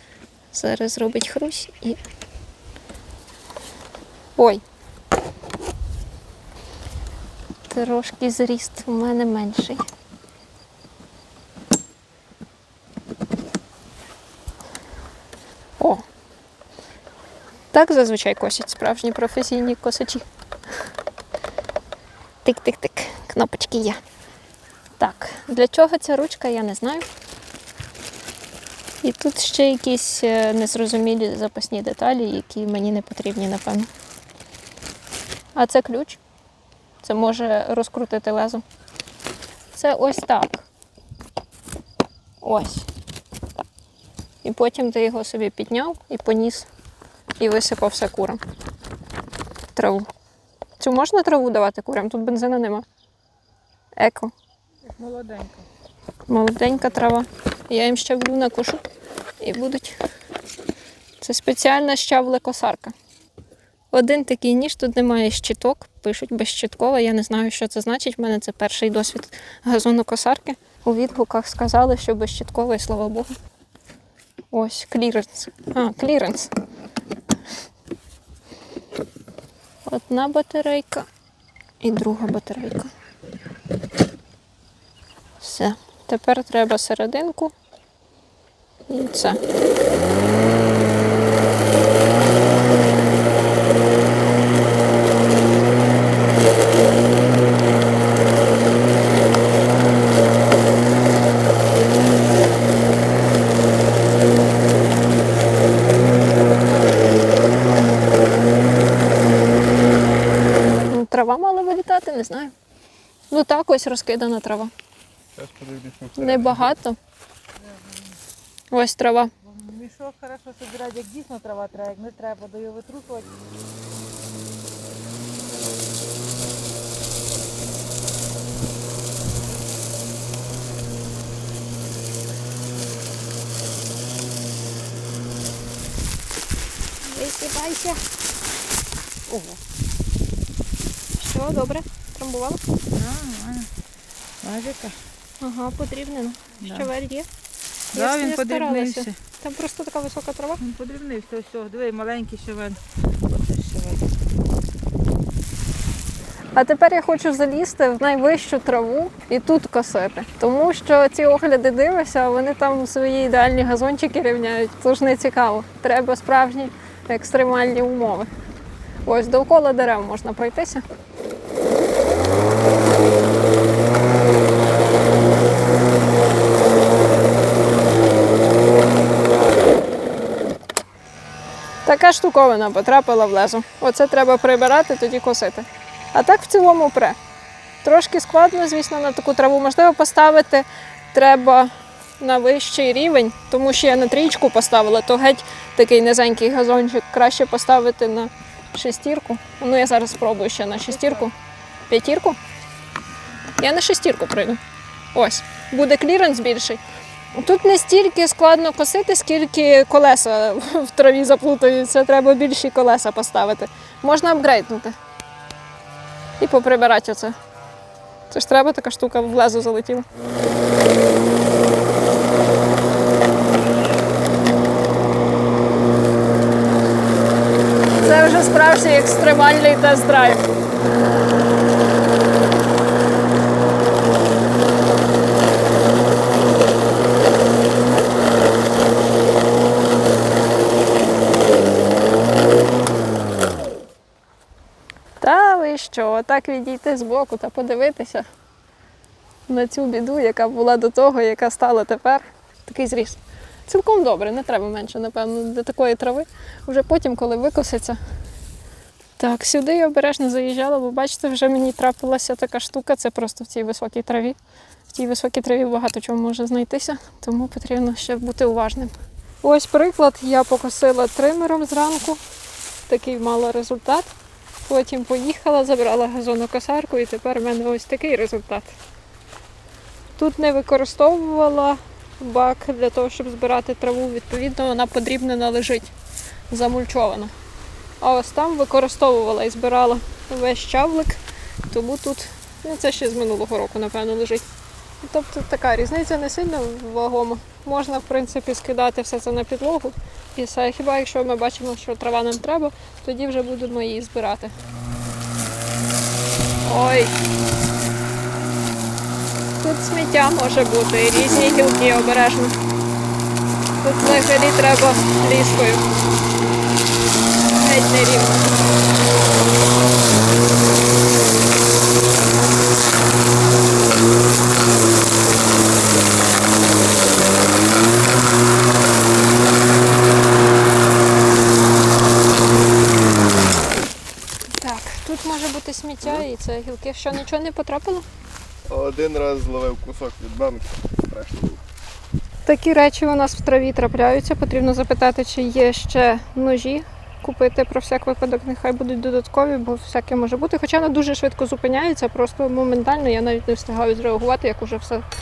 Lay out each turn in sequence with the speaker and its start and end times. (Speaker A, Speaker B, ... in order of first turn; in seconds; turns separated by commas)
Speaker A: 0.5-2.0, Speaker A: 4.4-4.6, Speaker A: 7.7-9.8, Speaker A: 17.7-20.2, Speaker A: 22.4-24.0, Speaker A: 25.0-27.1, Speaker A: 29.0-33.9, Speaker A: 35.5-36.2, Speaker A: 37.0-38.6, Speaker A: 39.7-40.6, Speaker A: 42.4-42.9, Speaker A: 44.4-46.7, Speaker A: 47.4-48.4, Speaker A: 49.8-50.1, Speaker A: 50.8-52.9, Speaker A: 54.0-54.3, Speaker B: 55.0-55.6, Speaker A: 56.3-58.8, Speaker A: 59.4-60.0, Speaker A: 61.2-63.0, Speaker A: 63.9-73.3, Speaker A: 74.5-76.5, Speaker A: 79.9-81.1, Speaker A: 81.8-82.9, Speaker A: 85.4-87.5, Speaker A: 88.9-89.4, Speaker A: 110.9-112.5, Speaker A: 113.3-114.7, Speaker C: 115.4-116.6, Speaker A: 116.2-117.0, Speaker A: 118.7-119.3, Speaker B: 119.6-123.3, Speaker A: 137.1-138.0, Speaker B: 139.3-139.6, Speaker A: 141.2-142.6, Speaker B: 142.9-143.7, Speaker B: 144.4-145.0, Speaker A: 145.4-147.3, Speaker B: 146.6-146.9, Speaker A: 147.9-150.6, Speaker B: 147.9-149.2, Speaker B: 150.6-154.0, Speaker A: 156.5-168.3, Speaker A: 169.1-170.8, Speaker A: 181.8-187.2, Speaker A: 187.8-201.3, Speaker A: 201.9-202.4, Speaker A: 203.6-204.6, Speaker A: 205.1-206.8, Speaker A: 207.3-214.9, Speaker A: 216.4-217.4, Speaker A: 218.3-220.1, Speaker A: 228.0-230.5, Speaker A: 245.2-248.3, Speaker A: 249.5-258.0, Speaker A: 259.2-264.4, Speaker A: 264.9-268.9, Speaker A: 269.4-272.2, Speaker A: 272.9-274.1, Speaker A: 274.6-278.7, Speaker A: 280.2-285.9, Speaker A: 286.5-287.3, Speaker A: 288.0-294.4, Speaker A: 295.0-304.5, Speaker A: 306.6-307.1, Speaker A: 309.6-312.6, Speaker A: 313.8-315.8, Speaker A: 317.5-318.5, Speaker A: 334.6-338.1, Speaker C: 338.7-341.6, Speaker A: 342.4-355.1